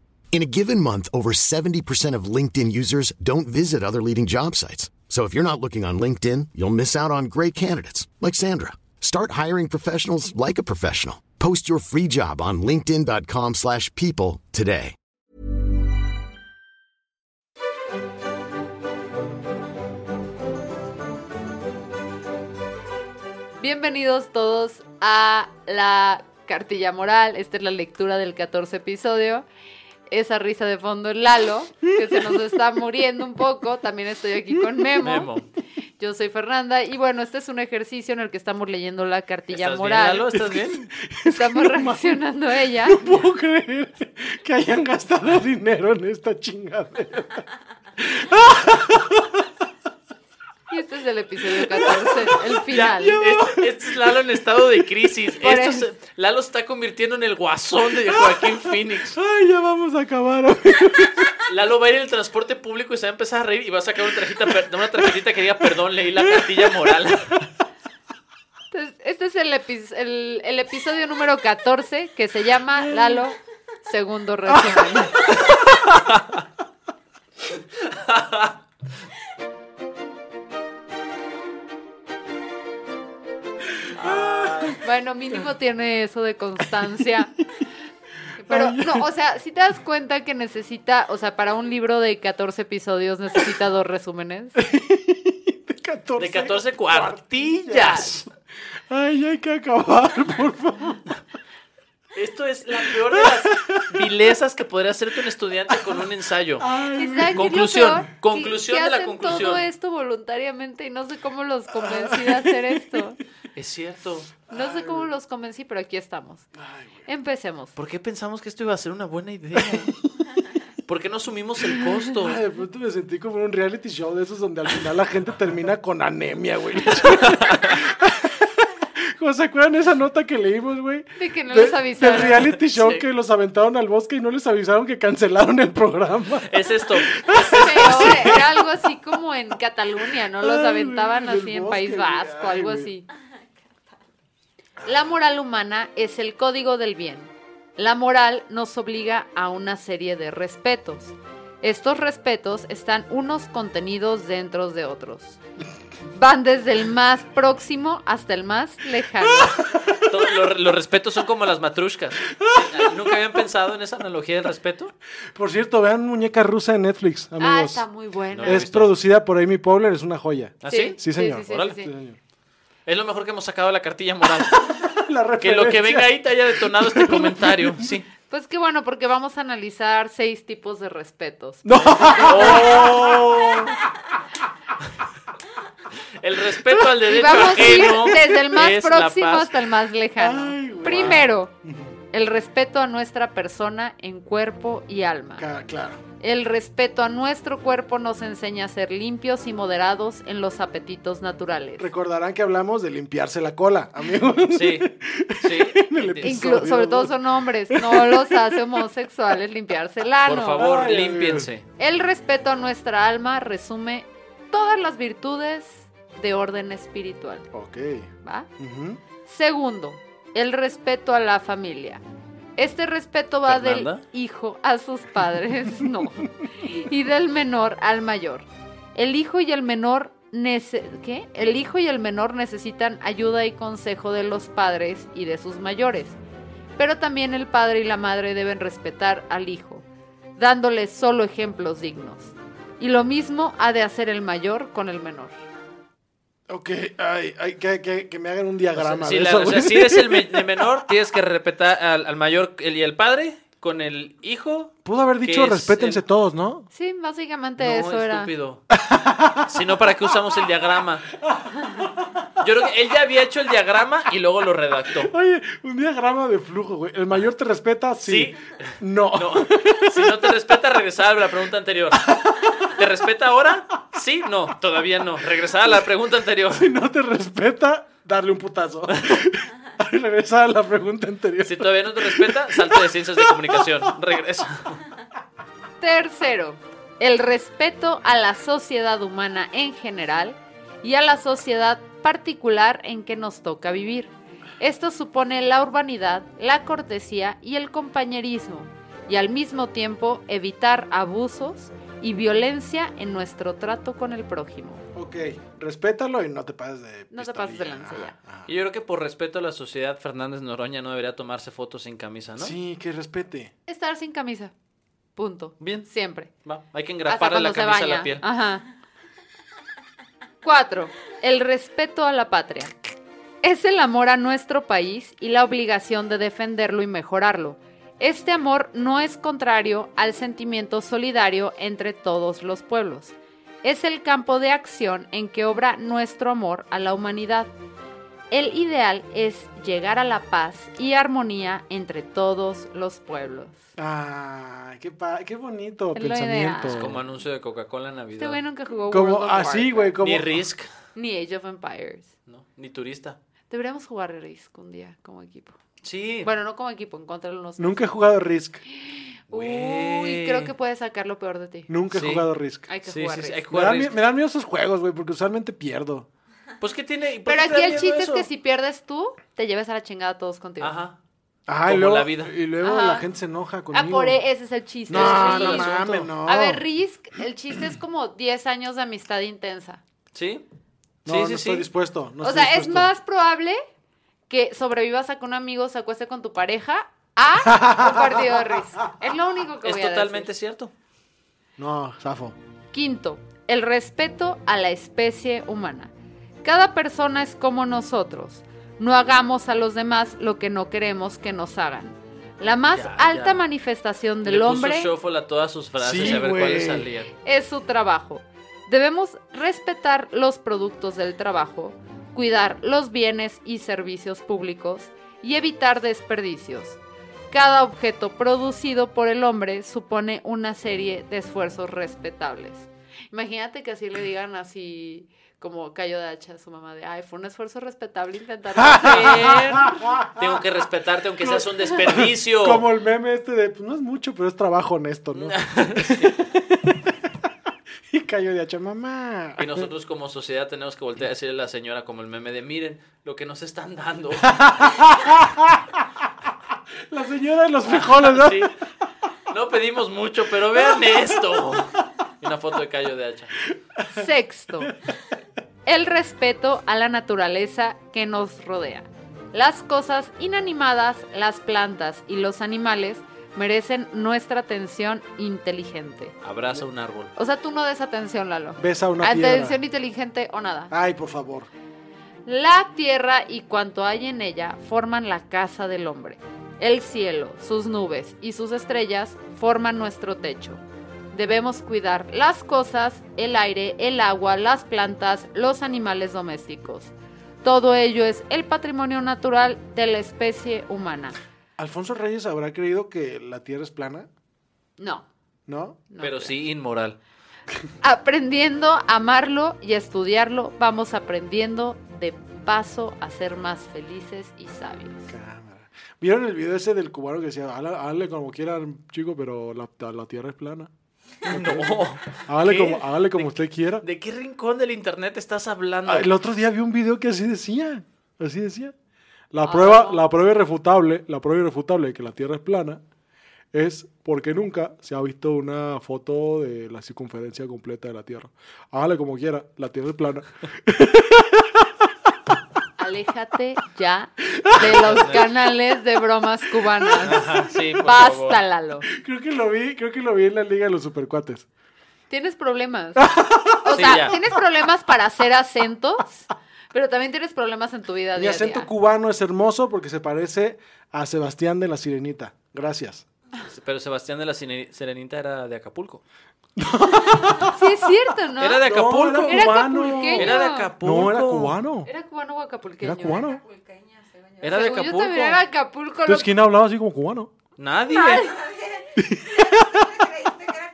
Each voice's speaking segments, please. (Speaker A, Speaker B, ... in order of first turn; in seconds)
Speaker A: 0.3-14.9
Speaker B: 23.6-29.4, 30.1-35.3, 36.0-40.3, 41.2-43.0, 50.7-53.2, 55.4-55.9, 68.7-75.2, 84.8-87.3, 88.4-94.5, 107.0-113.2, 114.5-116.5, 117.0-117.7, 131.2-132.5, 137.3-143.0, 144.8-155.4, 156.1-159.6, 167.4-168.7, 170.7-171.9, 178.3-182.9, 187.0-191.5, 192.1-195.4, 196.2-201.9, 206.2-210.6, 211.8-217.4, 219.2-222.0, 222.6-236.2, 236.8-239.8, 240.4-245.3, 256.7-258.3, 285.8-304.8, 307.1-308.1, 313.7-314.5, 315.1-316.3, 317.1-318.6, 320.4-322.7, 323.4-337.5, 338.3-343.6, 345.9-346.9, 348.2-349.9, 350.9-352.1, 353.5-355.6, 356.2-357.9, 358.7-361.7, 362.7-363.4, 367.2-370.8, 372.6-373.0, 373.7-375.7, 376.2-379.8, 382.2-383.6, 384.3-390.3, 392.7-395.9, 396.4-404.9, 407.2-416.8, 417.3-429.8, 453.9-454.7, 455.6-466.1, 467.1-470.7, 472.2-491.1, 494.8-495.1, 495.9-496.4, 497.8-505.1, 519.4-520.1, 532.8-538.9, 542.1-543.0, 543.6-548.7, 557.4-558.7, 559.2-560.7, 561.8-563.3, 564.4-566.3, 568.0-568.3
Speaker C: 31.9-32.4, 34.5-34.9, 40.3-42.2, 42.8-47.4, 48.0-49.4, 51.5-53.8, 58.1-58.6, 59.1-61.3, 66.2-66.9, 84.0-84.7, 88.5-89.1, 94.5-98.3, 98.9-101.0, 102.9-104.0, 106.6-107.5, 111.8-112.5, 114.5-115.1, 116.5-117.1, 122.2-138.5, 140.3-142.9, 162.3-162.8, 165.3-167.8, 168.4-172.2, 174.7-178.0, 181.6-183.8, 186.7-188.1, 190.2-191.9, 195.4-196.0, 201.8-208.8, 210.6-211.5, 217.5-219.0, 246.5-250.6, 254.8-256.7, 258.7-259.5, 261.2-262.2, 265.0-270.2, 271.9-272.6, 276.5-283.6, 304.9-308.5, 312.4-313.5, 343.8-347.0, 348.9-350.4, 357.6-358.6, 361.7-362.7, 363.5-366.1, 371.5-374.2, 374.9-376.6, 381.0-382.9, 387.5-388.5, 391.6-392.4, 405.8-406.9, 428.6-430.1, 431.2-436.9, 437.9-439.7, 444.2-445.8, 446.9-448.5, 453.5-453.9, 468.6-469.6, 470.7-471.5, 491.6-494.1, 495.5-495.8, 505.1-510.7, 511.3-513.8, 515.9-518.7, 519.3-522.8, 523.5-531.6, 538.9-541.4, 543.0-544.2, 548.1-553.0, 556.6-557.7, 558.6-561.9, 562.8-563.4, 566.0-567.3, 568.9-570.2
Speaker D: 35.0-35.5, 39.5-40.9, 52.7-59.2, 61.5-67.4, 75.3-76.4, 77.8-78.5, 84.0-84.8, 96.2-98.3, 102.1-106.7, 107.3-109.7, 113.5-114.3, 117.8-119.9, 120.8-122.4, 127.2-127.7, 132.3-133.0, 136.4-138.4, 159.9-164.9, 168.3-169.0, 170.6-171.8, 172.8-174.8, 175.4-178.1, 182.2-183.7, 186.2-189.5, 204.5-204.9, 205.4-206.6, 210.2-211.7, 223.5-224.0, 248.8-256.0, 257.6-258.6, 259.4-261.1, 262.4-265.1, 268.0-272.1, 272.6-276.7, 281.4-284.8, 308.4-312.6, 315.6-315.9, 316.4-318.2, 346.7-348.4, 350.0-350.7, 352.3-353.2, 355.8-356.3, 359.3-360.5, 361.9-362.3, 362.8-363.9, 366.6-368.3, 370.6-371.0, 371.6-372.3, 374.9-376.1, 380.1-380.4, 381.0-381.7, 389.6-390.7, 402.7-403.4, 404.2-407.1, 430.1-432.6, 435.1-436.2, 439.4-444.4, 447.6-448.5, 449.3-453.3, 466.2-467.1, 496.0-497.0, 511.2-516.1, 534.5-535.3, 537.0-538.4, 543.7-544.1, 553.5-556.0, 558.4-561.6, 564.4-565.4, 567.6-568.3